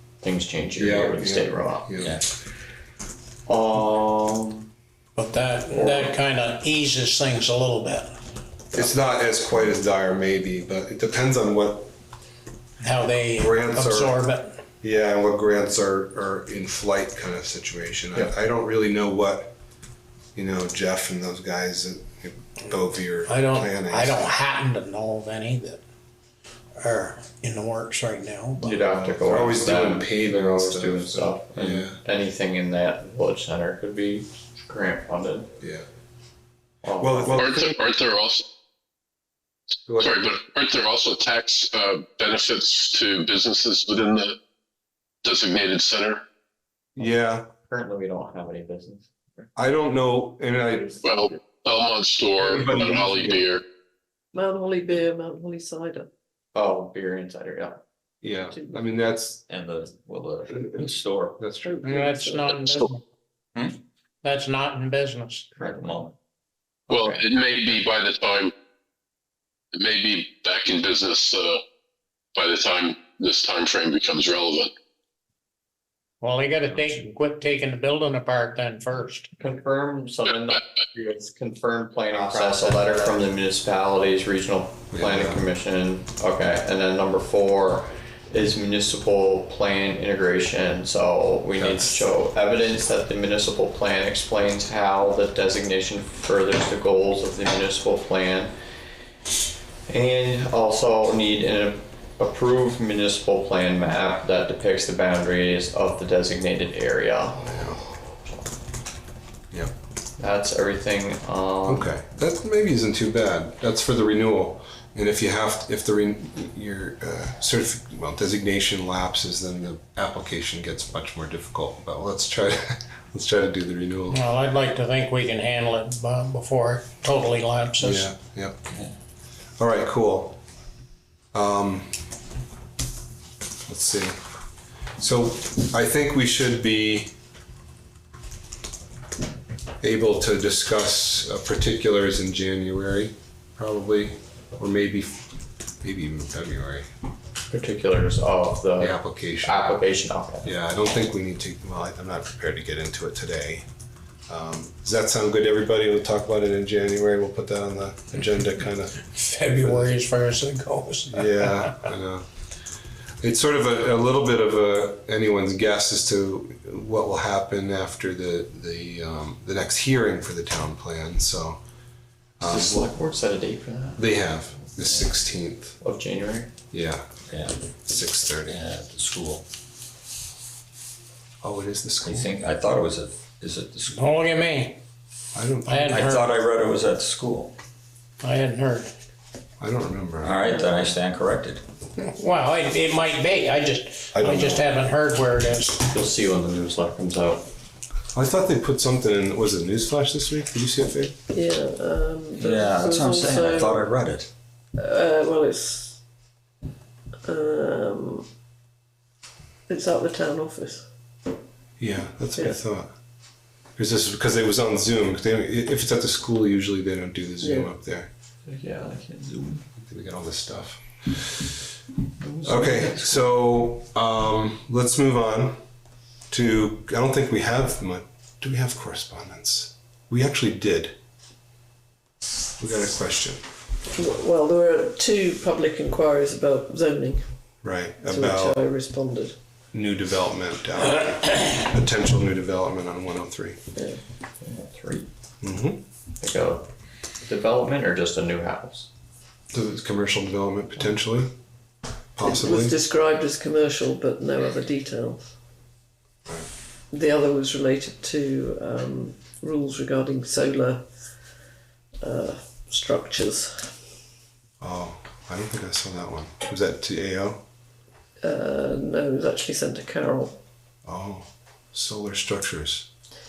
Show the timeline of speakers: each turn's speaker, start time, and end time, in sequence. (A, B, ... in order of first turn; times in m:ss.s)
0:00.2-0:01.9 A
0:00.8-0:02.2 B
0:03.5-0:04.7 A
0:05.2-0:08.1 C
0:05.7-0:06.2 A
0:08.7-0:11.9 B
0:12.8-0:14.5 C
0:13.3-0:14.2 B
0:14.8-0:19.6 B
0:20.4-0:24.2 B
0:23.3-0:25.8 C
0:26.8-0:28.9 C
0:28.6-0:35.5 A
0:29.0-0:32.0 B
0:35.6-0:35.9 B
0:36.8-0:37.5 A
0:37.0-0:37.8 B
0:37.4-0:38.4 D
0:39.9-0:40.4 B
0:40.0-0:44.4 D
0:45.2-0:46.2 D
0:47.0-0:47.5 B
0:47.7-0:49.5 A
0:49.6-0:51.0 B
0:51.0-0:53.6 D
0:52.4-0:53.5 B
0:54.3-0:56.1 E
0:56.6-0:57.8 A
0:58.2-0:59.4 B
0:58.5-0:58.8 E
0:59.5-1:01.4 F
1:00.5-1:01.9 B
1:01.6-1:02.9 E
1:01.8-1:03.0 C
1:04.2-1:05.7 C
1:05.6-1:06.1 F
1:06.9-1:08.5 D
1:06.9-1:07.2 A
1:09.7-1:11.6 D
1:12.4-1:14.7 D
1:16.2-1:19.3 C
1:19.4-1:38.5 A
1:22.3-1:23.0 F
1:24.9-1:25.4 B
1:31.6-1:32.0 B
1:39.9-1:47.5 A
1:47.4-1:47.8 B
1:50.2-1:51.9 A
1:51.6-2:04.2 B
2:04.1-2:08.1 C
2:07.8-2:08.6 B
2:09.6-2:10.4 B
2:11.3-2:12.0 B
2:13.7-2:14.2 B
2:15.0-2:17.2 B
2:19.8-2:26.9 B
2:27.5-2:30.5 A
2:28.8-2:29.7 B
2:30.4-2:33.7 B
2:34.3-2:39.0 B
2:39.1-2:41.8 C
2:39.6-2:40.0 B
2:41.1-2:42.3 B
2:43.2-2:51.6 B
2:52.4-2:52.9 B
2:52.4-2:55.1 A
2:54.0-2:55.8 B
2:55.8-2:56.5 A
2:56.7-2:57.0 B
2:57.3-2:57.6 F
2:57.8-2:58.6 B
2:58.5-2:59.4 F
3:01.4-3:02.4 B
3:02.0-3:04.0 F
3:03.9-3:04.8 C
3:05.3-3:06.2 B
3:05.6-3:06.4 C
3:05.9-3:07.5 F
3:08.2-3:08.9 C
3:09.6-3:10.4 B
3:10.2-3:11.6 F
3:12.0-3:15.8 C
3:14.1-3:14.7 B
3:15.9-3:17.5 A
3:18.1-3:21.2 B
3:21.3-3:24.0 E
3:22.4-3:24.3 F
3:24.8-3:26.0 E
3:27.2-3:28.3 E
3:29.7-3:30.9 E
3:31.8-3:32.9 B
3:33.8-3:38.1 B
3:37.4-3:37.7 E
3:38.5-3:39.6 A
3:39.8-3:41.5 B
3:42.2-3:43.2 A
3:42.4-3:45.6 B
3:46.3-3:51.0 B
3:52.6-3:53.4 B
3:54.0-3:57.2 E
3:57.6-3:58.6 B
3:58.0-3:59.4 E
3:59.7-4:03.6 B
4:04.4-4:05.1 A
4:05.4-4:05.8 B
4:06.2-4:06.7 A
4:07.2-4:08.9 A
4:09.5-4:11.3 B
4:12.2-4:12.8 B
4:12.2-4:15.3 E
4:16.9-4:20.8 E
4:22.0-4:23.7 E
4:24.6-4:27.4 B
4:28.2-4:30.4 E
4:30.8-4:32.9 B